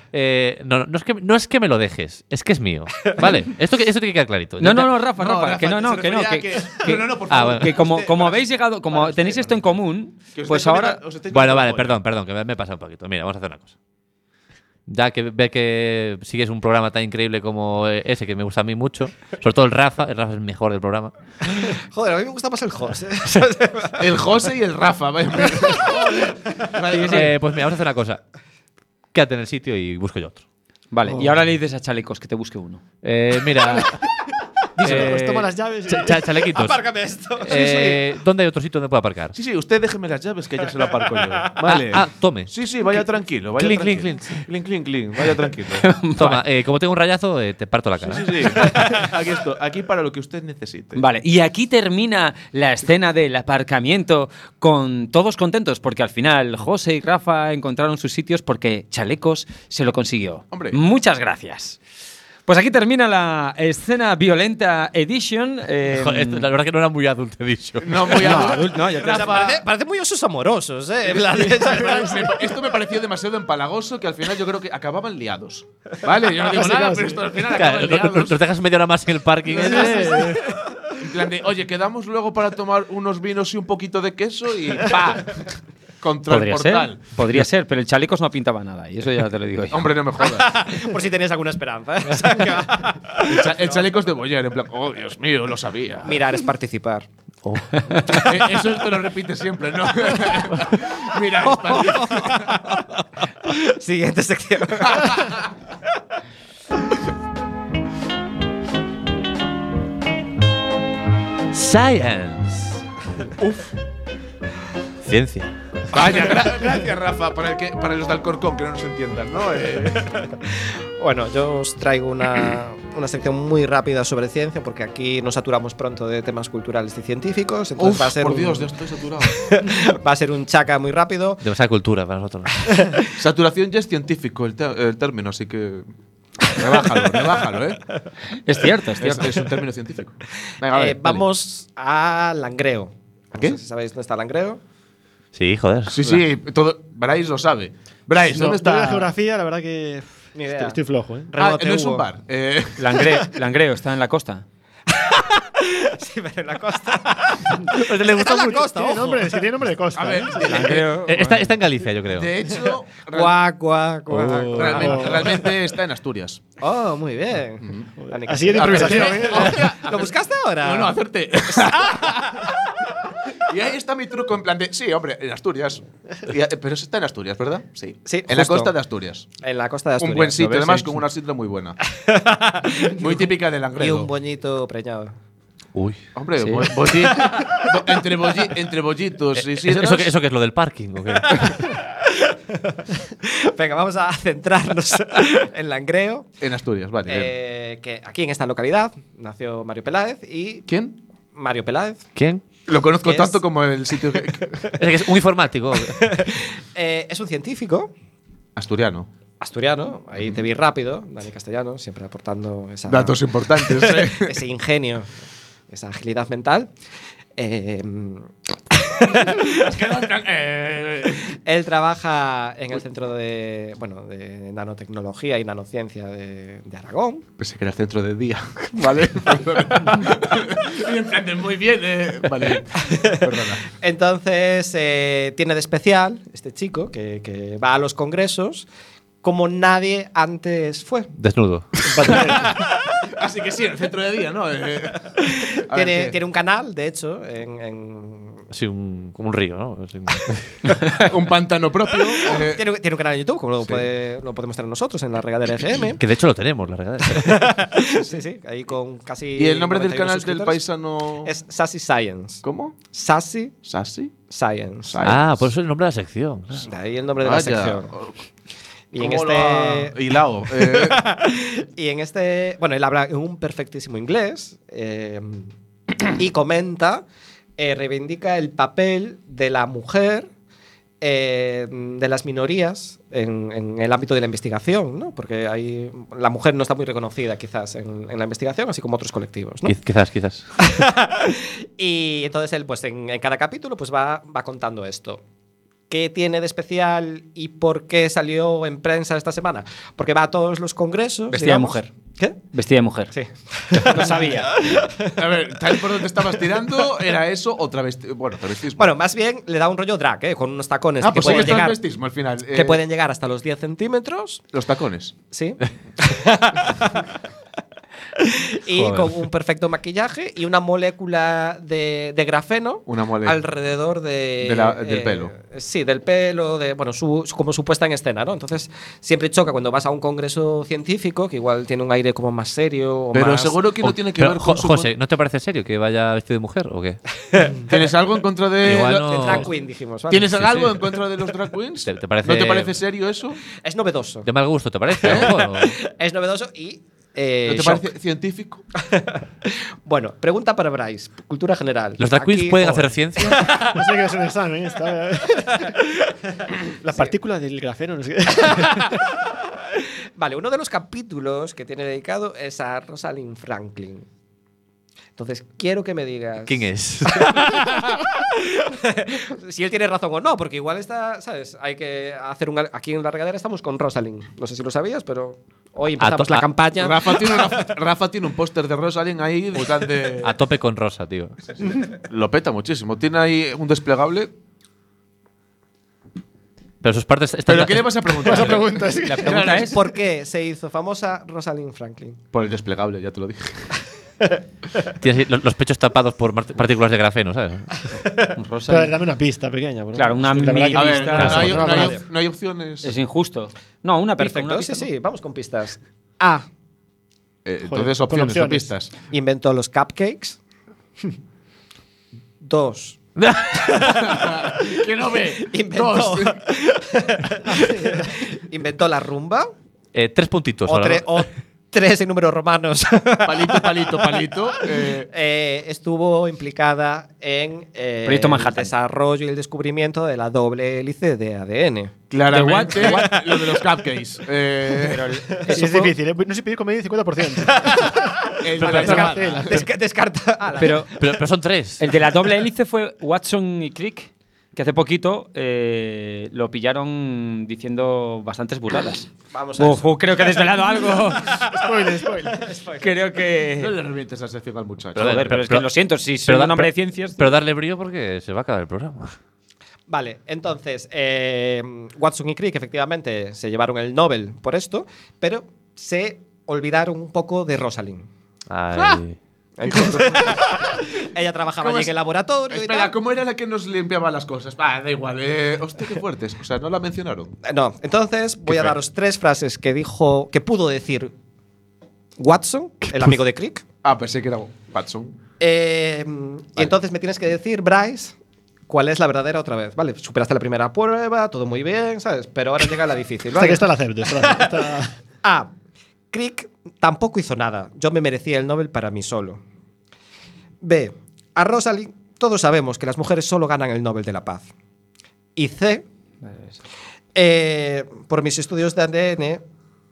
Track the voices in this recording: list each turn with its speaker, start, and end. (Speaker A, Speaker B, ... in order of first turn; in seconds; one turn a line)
Speaker A: 0.1-4.9
Speaker B: 4.6-11.0
Speaker C: 5.2-9.4
Speaker A: 7.3-7.7
Speaker C: 10.3-12.0
Speaker A: 11.3-13.7
Speaker A: 14.9-21.1
Speaker D: 21.5-24.1
Speaker C: 24.0-27.3
Speaker D: 25.6-26.8
Speaker B: 26.9-27.2
Speaker A: 27.1-28.2
Speaker A: 29.1-30.4
Speaker B: 30.9-32.8
Speaker A: 33.0-34.0
Speaker E: 34.8-36.4
Speaker A: 34.8-36.8
Speaker D: 36.5-38.0
Speaker A: 37.4-39.4
Speaker C: 39.3-45.9
Speaker A: 41.6-42.5
Speaker A: 43.6-44.4
Speaker B: 45.8-46.4
Speaker A: 46.2-48.8
Speaker C: 48.0-51.0
Speaker B: 50.9-61.8
Speaker C: 60.5-60.8
Speaker B: 62.5-66.5
Speaker A: 65.9-68.6
Speaker C: 67.8-69.6
Speaker B: 68.1-69.5
Speaker D: 68.8-72.4
Speaker C: 71.1-78.4
Speaker E: 76.5-77.2
Speaker A: 77.4-80.5
Speaker C: 79.6-79.9
Speaker E: 79.7-80.3
Speaker D: 80.0-80.3
Speaker C: 81.0-85.5
Speaker C: 86.0-87.0
Speaker B: 86.3-89.8
Speaker C: 89.7-90.5
Speaker D: 90.2-93.8
Speaker C: 93.2-96.2
Speaker D: 96.0-97.1
Speaker A: 97.4-98.2
Speaker C: 98.1-102.7
Speaker D: 101.4-105.3
Speaker C: 104.8-105.5
Speaker A: 111.5-112.8
Speaker C: 113.4-113.7
Speaker A: 115.0-115.5
Speaker C: 115.9-120.2
Speaker D: 120.2-128.7
Speaker C: 127.8-129.6
Speaker D: 129.2-131.4
Speaker A: 131.4-132.6
Speaker D: 132.6-133.0
Speaker C: 133.1-135.9
Speaker C: 136.4-137.8
Speaker B: 138.4-139.3
Speaker C: 139.0-141.2
Speaker D: 140.7-144.6
Speaker A: 145.3-146.0
Speaker C: 145.9-149.1
Speaker E: 148.2-151.3
Speaker D: 150.3-152.1
Speaker C: 151.4-153.0
Speaker B: 152.8-154.4
Speaker D: 154.9-159.4
Speaker A: 157.7-158.7
Speaker E: 158.6-160.4
Speaker C: 159.9-161.5
Speaker B: 160.4-161.5
Speaker A: 161.0-162.3
Speaker C: 162.1-163.4
Speaker D: 163.1-165.5
Speaker E: 164.1-165.4
Speaker C: 164.5-166.4
Speaker D: 166.6-170.9
Speaker C: 167.6-167.9
Speaker E: 168.1-169.6
Speaker C: 168.5-179.3
Speaker D: 171.5-172.2
Speaker D: 178.1-178.7
Speaker D: 179.4-180.8
Speaker C: 180.0-181.8
Speaker D: 181.9-185.1
Speaker C: 182.8-184.1
Speaker A: 185.7-186.0
Speaker C: 186.2-190.1
Speaker B: 186.4-186.7
Speaker D: 187.0-187.7
Speaker A: 189.3-191.6
Speaker D: 191.8-196.3
Speaker C: 196.4-197.3
Speaker D: 197.1-200.7
Speaker C: 200.7-201.0
Speaker D: 201.3-202.1
Speaker A: 202.2-202.4
Speaker C: 202.7-204.7
Speaker D: 203.0-203.4
Speaker A: 204.8-206.0
Speaker D: 205.9-207.9
Speaker C: 208.6-209.1
Speaker D: 209.4-215.1
Speaker C: 212.9-214.4
Speaker D: 215.7-216.7
Speaker D: 217.4-219.8
Speaker C: 219.4-221.3
Speaker D: 221.3-227.2
Speaker C: 227.4-233.7
Speaker D: 232.7-238.7
Speaker D: 239.2-241.1
Speaker A: 241.2-242.1
Speaker C: 241.8-246.2
Speaker E: 241.9-242.3
Speaker D: 245.2-248.4
Speaker A: 248.5-250.8
Speaker C: 251.0-252.6
Speaker D: 252.4-256.0
Speaker A: 256.0-257.6
Speaker D: 257.1-260.6
Speaker C: 259.4-261.3
Speaker D: 261.2-262.4
Speaker C: 262.4-262.8
Speaker D: 262.9-263.5
Speaker C: 263.6-264.1
Speaker D: 264.3-265.1
Speaker C: 264.9-265.4
Speaker A: 265.0-266.7
Speaker D: 266.6-267.9
Speaker C: 267.2-268.2
Speaker D: 268.9-269.9
Speaker C: 268.9-271.0
Speaker D: 270.5-277.0
Speaker D: 277.6-280.3
Speaker D: 281.0-289.8
Speaker A: 289.6-290.4
Speaker D: 290.6-295.2
Speaker D: 295.9-302.4
Speaker B: 301.3-301.9
Speaker B: 302.5-303.1
Speaker D: 303.1-305.2
Speaker B: 303.7-304.5
Speaker C: 305.1-308.9
Speaker D: 308.8-311.8
Speaker C: 311.0-312.8
Speaker D: 312.5-314.4
Speaker C: 314.5-315.1
Speaker D: 315.3-317.1
Speaker D: 318.2-333.6
Speaker A: 318.7-319.1
Speaker C: 322.9-323.4
Speaker C: 324.4-325.3
Speaker C: 333.1-334.9
Speaker A: 333.8-337.0
Speaker D: 337.3-337.7
Speaker C: 337.6-339.5
Speaker A: 338.6-339.5
Speaker D: 339.1-340.4
Speaker C: 340.1-343.4
Speaker A: 340.3-340.7
Speaker A: 341.8-342.8
Speaker D: 343.6-344.3
Speaker A: 344.2-345.8
Speaker D: 345.0-347.8
Speaker C: 345.0-345.3
Speaker C: 347.4-348.6
Speaker D: 348.8-353.8
Speaker A: 352.0-353.6
Speaker E: 353.6-355.7
Speaker E: 356.8-359.0
Speaker D: 358.5-359.1
Speaker D: 359.7-364.1
Speaker D: 365.1-377.7
Speaker A: 366.5-367.8
Speaker A: 376.0-376.5
Speaker C: 376.8-380.4
Speaker A: 380.2-381.4
Speaker C: 381.6-384.3
Speaker A: 386.8-388.4
Speaker C: 387.4-389.8
Speaker E: 388.2-389.7
Speaker B: 389.0-389.8
Speaker D: 389.6-392.2
Speaker C: 392.3-393.7
Speaker A: 395.0-397.8
Speaker B: 398.3-398.9
Speaker E: 398.7-402.0
Speaker B: 399.9-401.7
Speaker C: 400.7-402.9
Speaker A: 401.2-401.6
Speaker D: 401.7-402.0
Speaker B: 402.8-404.9
Speaker D: 404.2-406.4
Speaker C: 407.4-408.9
Speaker E: 407.7-408.7
Speaker D: 409.1-410.4
Speaker D: 412.4-413.0
Speaker A: 413.2-414.1
Speaker C: 413.8-416.4
Speaker D: 415.3-419.5
Speaker E: 417.5-418.1
Speaker A: 419.9-421.2
Speaker D: 420.7-431.9
Speaker C: 423.2-425.1
Speaker B: 428.0-428.7
Speaker C: 432.1-435.1
Speaker B: 432.3-433.2
Speaker B: 434.8-435.9
Speaker E: 435.5-439.5
Speaker D: 437.5-440.9
Speaker C: 438.4-439.5
Speaker A: 438.6-439.6
Speaker B: 440.6-440.9
Speaker A: 440.9-441.9
Speaker B: 441.8-451.4
Speaker D: 449.3-453.0
Speaker E: 451.4-452.4
Speaker B: 452.8-453.7
Speaker C: 453.6-455.2
Speaker A: 454.9-455.7
Speaker B: 454.9-457.4
Speaker A: 456.2-459.1
Speaker D: 459.9-468.1
Speaker A: 468.5-469.2
Speaker C: 468.8-469.0
Speaker D: 469.6-472.9
Speaker C: 469.6-470.7
Speaker C: 471.6-471.9
Speaker C: 472.5-477.3
Speaker D: 477.4-481.1
Speaker D: 482.2-483.6
Speaker C: 483.8-485.2
Speaker D: 485.4-488.1
Speaker D: 488.7-495.5
Speaker E: 493.4-494.9
Speaker D: 496.1-499.4
Speaker D: 500.6-504.5
Speaker D: 505.4-505.9
Speaker D: 507.1-509.4